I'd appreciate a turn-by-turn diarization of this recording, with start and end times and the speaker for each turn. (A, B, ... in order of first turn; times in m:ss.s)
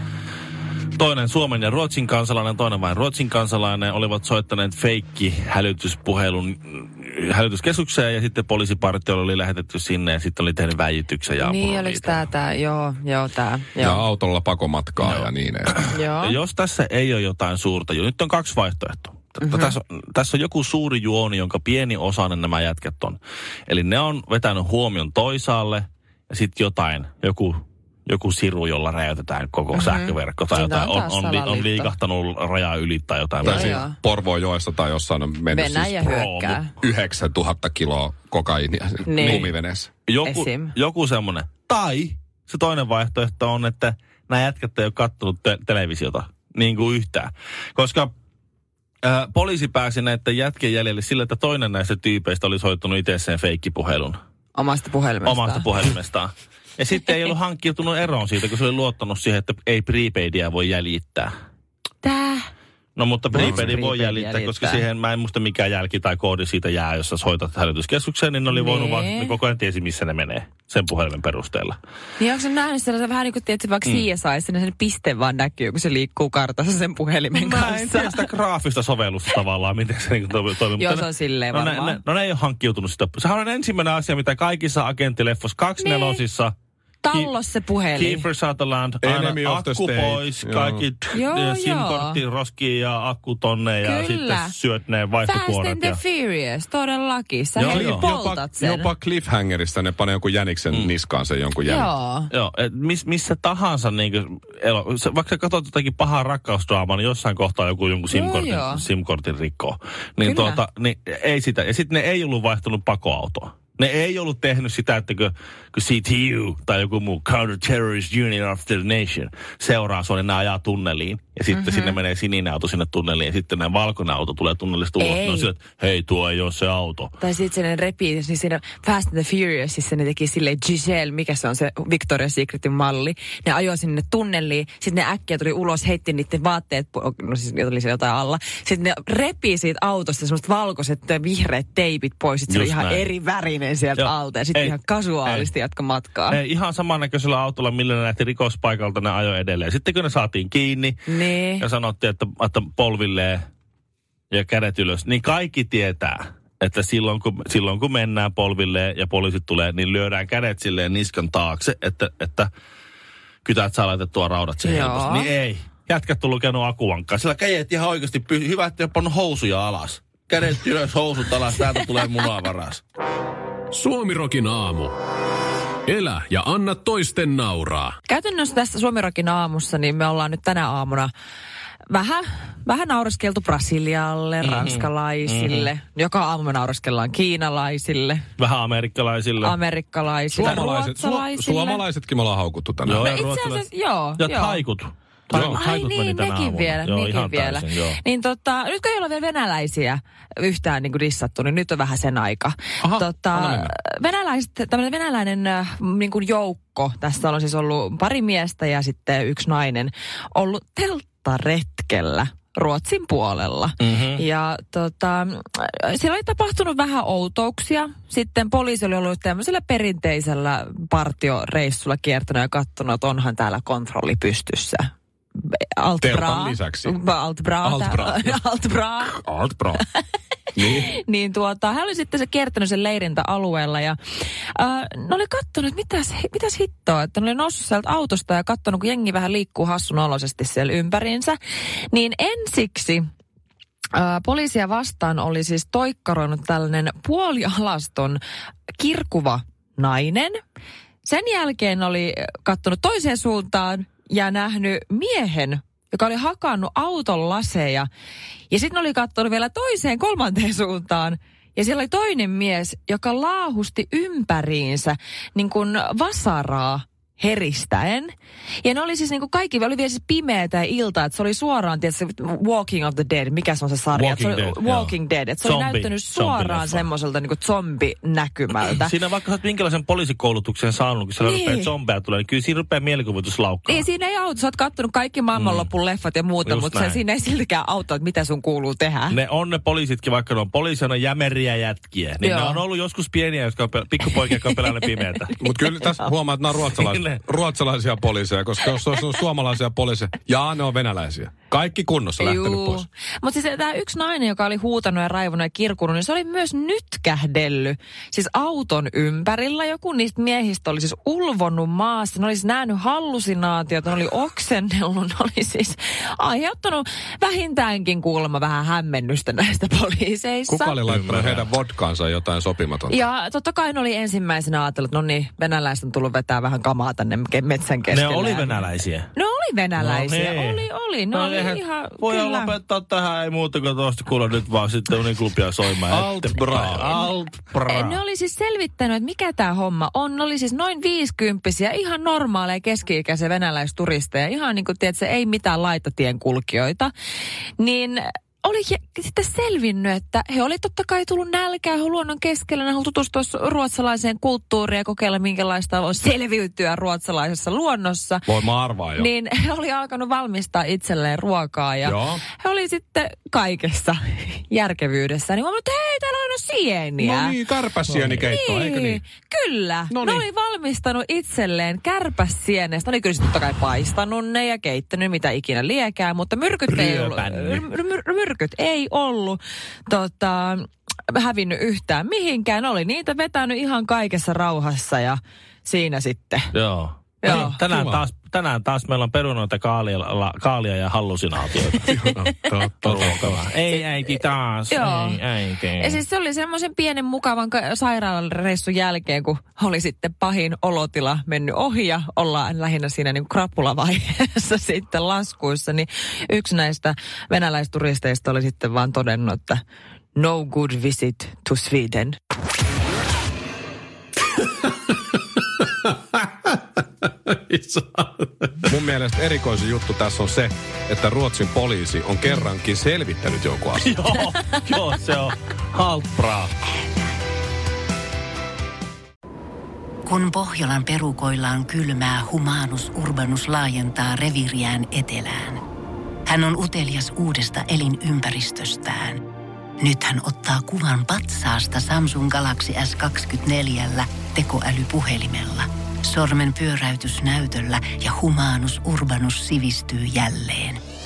0:01.0-0:12.2 A
0:11.4-0:14.0 B
0:13.8-0:15.8 C
0:15.0-0:33.8 A
0:15.9-0:16.4 B
0:19.4-0:19.7 B
0:29.7-0:31.9 B
0:33.4-0:36.1 C
0:33.4-0:34.0 B
0:35.5-0:36.7 B
0:36.0-0:36.6 A
0:36.8-0:39.9 C
0:39.0-0:39.5 B
0:39.2-0:39.5 A
0:40.1-0:48.1 A
0:40.2-0:40.7 B
0:49.0-0:54.2 A
0:54.5-0:55.7 B
0:55.2-1:01.3 A
1:02.0-1:02.5 B
1:03.0-1:11.8 A
1:03.3-1:03.8 C
1:03.4-1:04.8 B
1:08.5-1:09.4 B
1:12.2-1:18.2 B
1:17.3-1:26.5 A
1:20.8-1:22.0 B
1:25.8-1:26.2 B
1:27.0-1:28.2 B
1:28.0-1:36.0 A
1:29.0-1:30.8 C
1:31.1-1:32.2 B
1:33.8-1:34.5 B
1:35.2-1:38.9 B
1:37.6-1:38.0 A
1:37.6-1:41.9 C
1:41.6-1:42.3 B
1:42.3-2:07.1 A
1:48.1-1:48.8 B
1:50.2-1:50.6 B
2:01.5-2:02.0 B
2:05.0-2:05.5 B
2:07.2-2:26.4 B
2:22.5-2:23.1 A
2:24.0-2:25.5 A
2:26.3-2:31.0 A
2:31.1-2:31.6 B
2:31.6-2:33.4 A
2:34.3-2:42.5 A
2:43.4-2:52.8 A
2:44.6-2:45.3 B
2:53.7-2:54.9 D
2:55.8-2:58.0 D
2:58.0-3:01.1 B
3:01.9-3:08.2 B
3:04.4-3:05.7 A
3:08.4-3:09.6 A
3:09.4-3:11.8 B
3:10.3-3:13.1 C
3:12.8-3:13.7 A
3:13.0-3:14.6 B
3:14.2-3:18.0 A
3:15.3-3:15.6 C
3:15.3-3:44.9 B
3:22.8-3:23.7 C
3:33.8-3:34.2 A
3:45.5-3:49.2 B
3:46.0-3:47.0 C
3:47.6-3:48.4 C
3:49.0-3:49.8 C
3:50.5-3:50.9 C
3:50.6-3:54.0 B
3:54.5-4:01.4 B
4:01.9-4:03.1 B
4:03.9-4:08.2 B
4:08.8-4:10.4 B
4:11.0-4:17.9 B
4:18.5-4:38.9 B
4:33.9-4:36.9 A
4:38.7-4:43.9 A
4:41.2-4:41.7 B
4:43.6-4:49.2 B
4:45.3-4:45.7 A
4:46.4-4:47.0 A
4:49.1-4:55.3 A
4:52.2-4:52.6 B
4:54.2-4:56.1 B
4:55.4-5:02.8 C
4:56.8-4:57.2 A
5:02.2-5:20.8 B
5:20.5-5:23.0 C
5:20.9-5:21.5 A
5:22.9-5:28.6 B
5:27.9-5:29.1 A
5:29.1-5:32.5 B
5:29.8-5:38.0 A
5:35.9-5:36.9 C
5:36.8-5:37.1 B
5:37.7-5:46.9 B
5:47.6-5:58.3 B
5:58.3-5:59.1 C
5:58.9-6:07.4 B
6:01.8-6:02.2 C
6:07.0-6:09.0 C
6:07.9-6:08.2 A
6:08.2-6:26.5 B
6:09.9-6:10.2 C
6:16.7-6:17.6 A
6:26.5-6:31.9 A
6:27.2-6:27.6 B
6:27.2-6:28.0 C
6:31.8-6:33.5 C
6:32.8-6:36.0 A
6:34.7-6:35.2 B
6:35.8-6:49.6 B
6:50.2-6:52.2 B
6:57.5-6:58.0 D
6:58.6-7:03.9 C
7:03.8-7:06.5 A
7:10.0-7:15.6 E
7:16.2-7:19.2 E
7:19.8-7:30.8 E